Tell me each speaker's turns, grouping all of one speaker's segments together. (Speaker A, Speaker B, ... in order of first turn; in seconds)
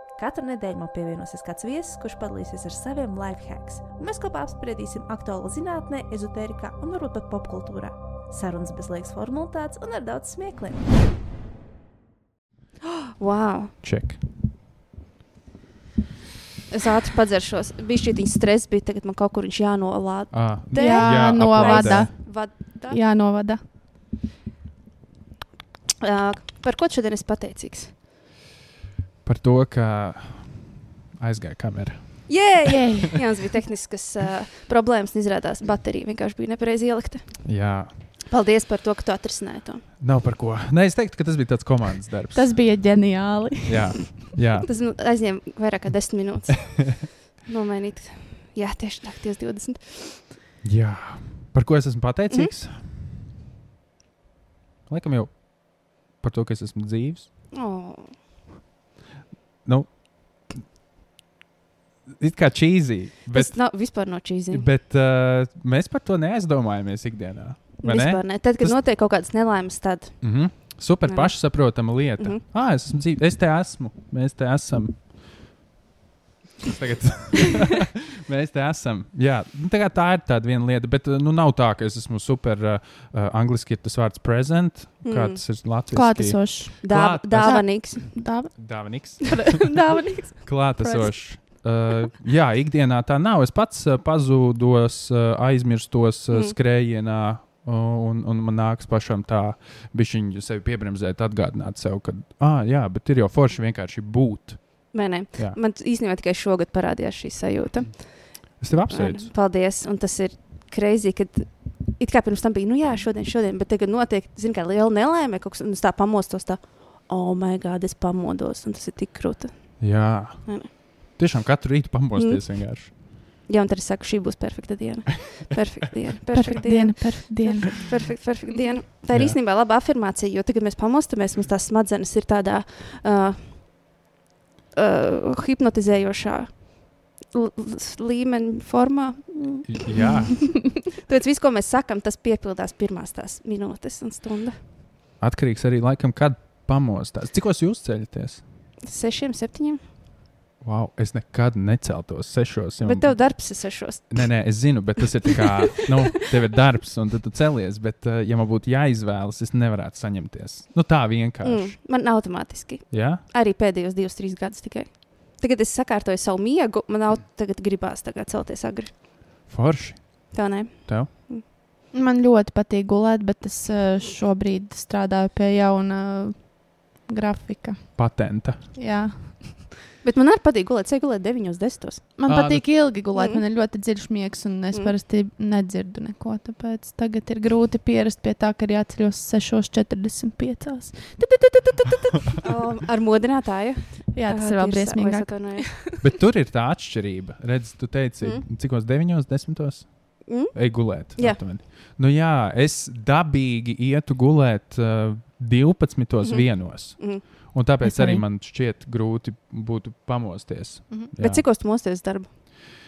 Speaker A: 0.1-10.8
Speaker B: 13.2-13.7, 16.7-23.0, 26.0-28.0, 32.3-39.9, 44.7-50.3, 52.3-52.5, 57.5-58.2, 63.3-64.7, 67.8-72.4, 85.0-85.4, 86.8-88.6, 89.9-91.4, 104.9-120.7, 122.2-133.9, 134.8-140.3, 141.0-144.6, 148.8-149.8, 152.8-154.8, 161.4-169.0, 170.3-171.4, 180.0-182.2, 183.1-183.4, 192.4-195.8, 198.2-198.5, 200.3-201.4, 206.2-207.2, 211.2-212.3
Speaker C: 13.8-14.2, 20.3-22.1, 29.2-32.7, 37.5-38.0, 40.0-42.8, 43.6-44.7, 50.6-53.1, 54.9-57.3, 59.6-60.7, 62.1-68.8, 70.2-75.5, 76.7-89.7, 90.5-105.6, 107.8-109.3, 119.8-122.9, 129.1-129.4, 139.7-140.6, 145.2-148.4, 150.6-161.8, 162.9-163.2, 169.5-171.1, 178.0-178.7, 182.3-182.7, 196.0-211.4
Speaker D: 20.8-23.6, 32.7-33.1, 42.3-44.0, 85.9-91.1, 126.3-127.9, 140.0-140.4, 171.9-179.7, 182.2-192.4, 194.1-196.0, 207.8-208.2